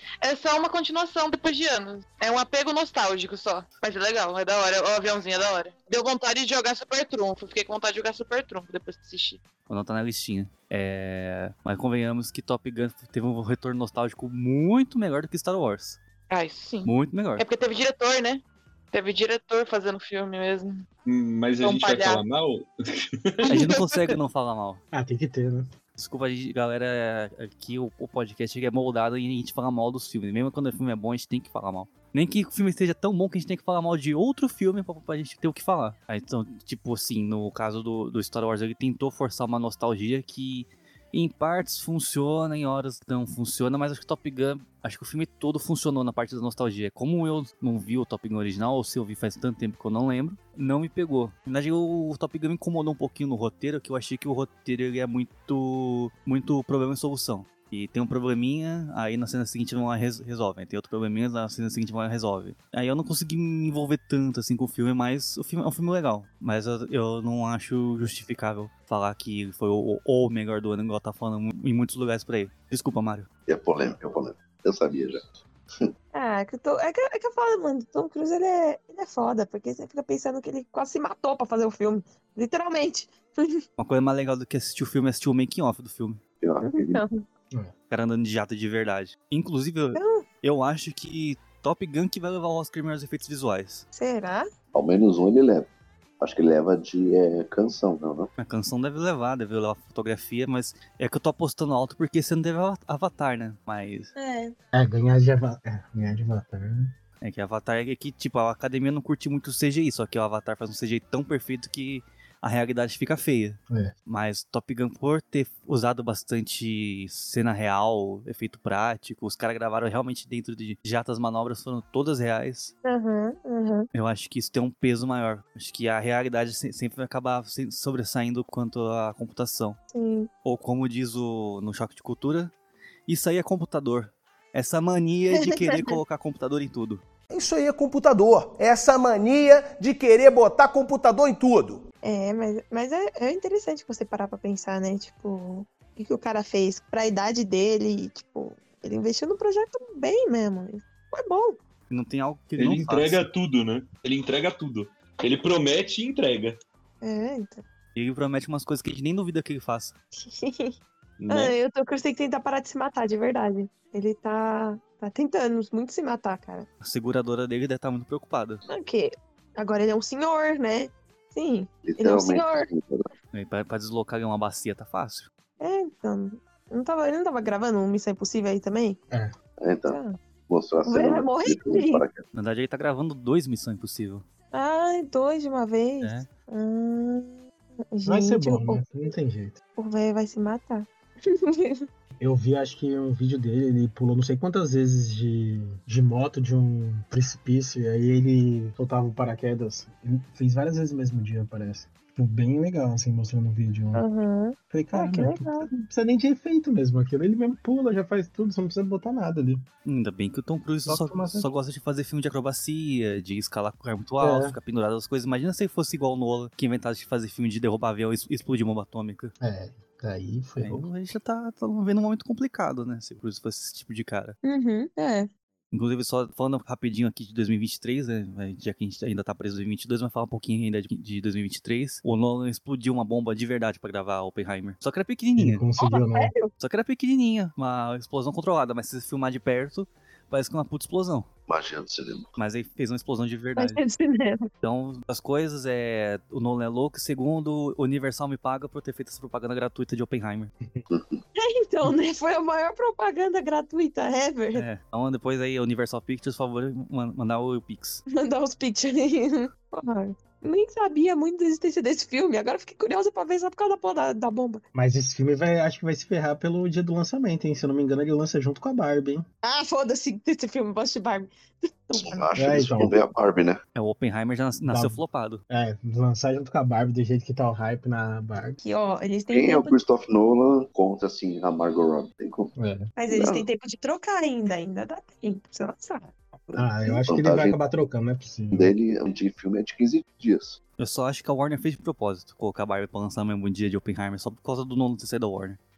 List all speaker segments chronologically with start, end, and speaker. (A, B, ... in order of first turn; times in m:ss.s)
0:00.2-0:09.4 A
0:09.7-0:16.0 B
0:16.3-0:18.4 A
0:16.8-0:17.4 B
0:18.9-0:20.8 A
0:21.0-0:23.6 C
0:21.6-0:22.2 A
0:23.5-0:23.9 A
0:23.5-0:24.8 B
0:24.9-0:25.7 D
0:26.0-1:13.3 B
1:13.5-1:15.3 E
1:16.1-1:23.6 F
1:23.8-1:26.2 B
1:26.4-1:27.0 E
1:26.6-1:27.2 F
1:27.9-1:33.8 B
1:29.9-1:30.2 F
1:33.9-1:34.4 F
1:34.7-1:35.7 E
1:36.2-1:38.3 E
1:38.4-1:44.1 B
1:44.2-1:44.5 F
1:44.7-1:46.9 D
1:47.2-2:02.7 B
2:02.8-2:03.9 F
2:03.9-2:09.8 B
2:09.9-2:10.3 F
2:10.4-2:12.5 B
2:13.1-2:17.0 B
2:15.4-2:15.8 F
2:17.3-2:21.8 G
2:22.0-2:31.6 F
2:31.9-2:33.3 B
2:32.6-2:36.6 C
2:37.0-2:37.6 F
2:37.9-2:39.9 B
2:40.2-2:40.7 F
2:41.2-2:41.5 B
2:41.3-2:46.7 F
2:46.8-2:48.6 B
2:48.7-2:52.7 F
2:51.8-2:53.1 E
2:53.3-2:55.3 B
2:55.6-2:59.0 F
2:59.6-3:02.2 E
2:59.9-3:00.2 F
3:00.8-3:02.0 F
3:02.3-3:04.2 B
3:04.5-3:07.4 F
3:06.0-3:06.3 B
3:07.9-3:08.8 F
3:08.0-3:09.6 D
3:09.8-3:11.8 F
3:12.2-3:24.0 D
3:23.9-3:25.7 F
3:24.7-3:29.6 D
3:29.8-3:39.3 B
3:30.8-3:31.5 D
3:34.2-3:34.6 D
3:39.4-3:40.9 D
3:40.6-3:44.4 B
3:44.4-3:45.3 F
3:45.7-3:55.6 B
3:55.4-3:56.3 D
3:55.8-3:56.5 F
3:56.6-4:01.3 B
4:01.5-4:02.3 E
4:02.4-4:03.8 B
4:03.6-4:04.5 F
4:04.6-4:10.5 B
4:10.9-4:11.2 E
4:11.4-4:14.6 F
4:14.5-4:18.0 B
4:18.1-4:24.6 F
4:24.7-4:29.2 D
4:29.4-4:32.3 F
4:31.9-4:33.6 E
4:32.4-4:33.0 D
4:33.7-4:35.4 B
4:34.6-4:38.6 D
4:38.6-4:39.8 F
4:39.3-4:42.5 E
4:42.6-4:42.8 D
4:43.0-4:46.1 F
4:43.1-4:43.4 E
4:46.5-4:47.6 E
4:46.5-4:48.7 D
4:48.5-4:50.6 E
4:50.8-4:55.6 B